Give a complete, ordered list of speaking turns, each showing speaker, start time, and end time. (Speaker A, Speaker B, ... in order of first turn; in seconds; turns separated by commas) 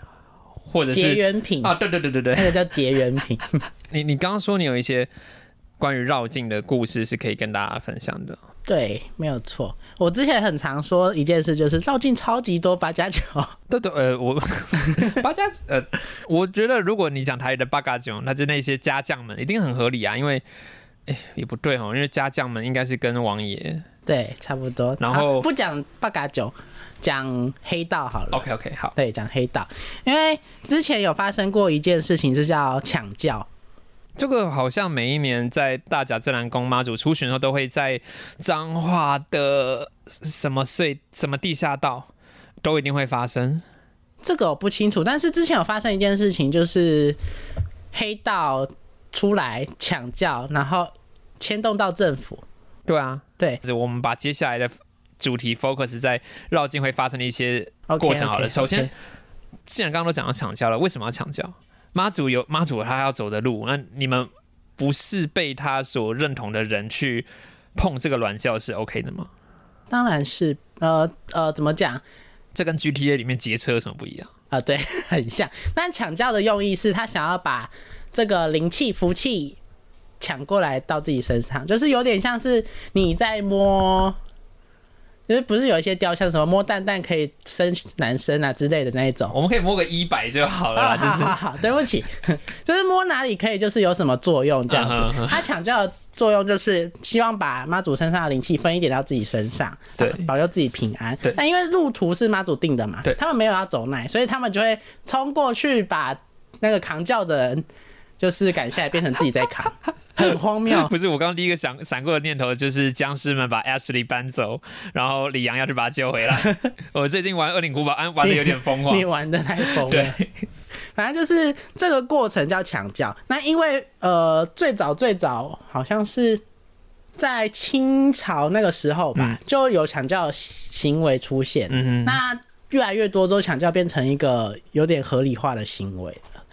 Speaker A: 0.6-2.6, Speaker B: 0.9-1.7, Speaker B: 2.4-3.6, Speaker A: 3.9-5.1, Speaker A: 5.8-8.4, Speaker B: 8.7-13.5, Speaker A: 13.7-20.4, Speaker A: 21.1-23.9, Speaker B: 24.1-28.4, Speaker A: 25.0-25.5, Speaker A: 28.3-28.9, Speaker B: 29.0-33.5, Speaker A: 34.2-42.1, Speaker A: 42.6-43.6, Speaker B: 44.2-47.2, Speaker B: 47.9-52.4, Speaker A: 52.9-58.9, Speaker B: 57.9-58.9, Speaker A: 59.7-69.3, Speaker B: 69.9-72.0, Speaker A: 72.5-74.3, Speaker B: 74.5-79.6, Speaker B: 80.2-84.2, Speaker B: 85.3-89.3, Speaker A: 89.3-91.4, Speaker B: 90.8-107.6, Speaker A: 94.7-95.4, Speaker A: 100.0-100.3, Speaker B: 108.2-110.9, Speaker A: 110.7-119.1, Speaker B: 118.2-120.2, Speaker A: 119.6-120.3, Speaker B: 120.9-126.4, Speaker B: 127.2-136.2, Speaker A: 131.7-132.2